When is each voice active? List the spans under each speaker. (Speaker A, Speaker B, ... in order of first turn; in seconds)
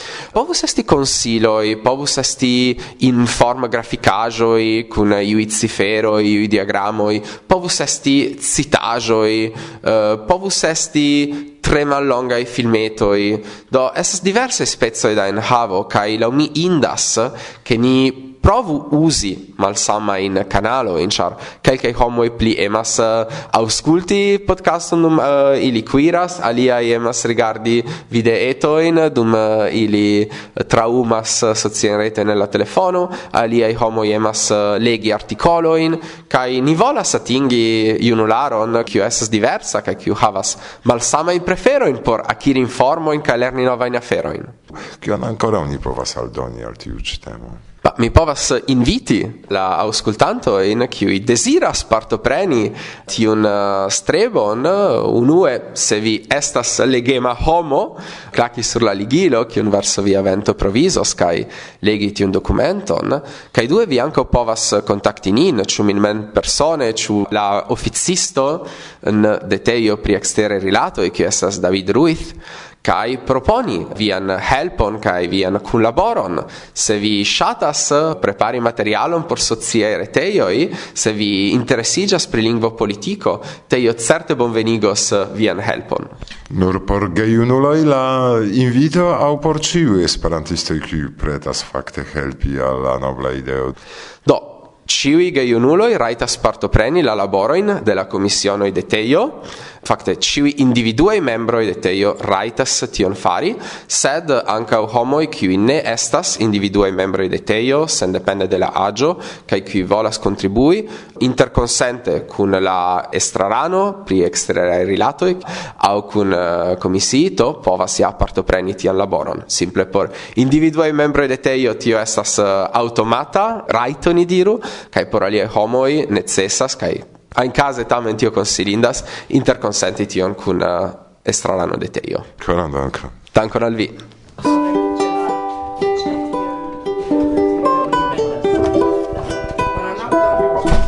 Speaker A: 0.3-44.5, 47.8-86.1, 94.2-132.3, 133.3-134.0
Speaker B: 45.0-47.6, 86.5-93.8, 132.4-133.2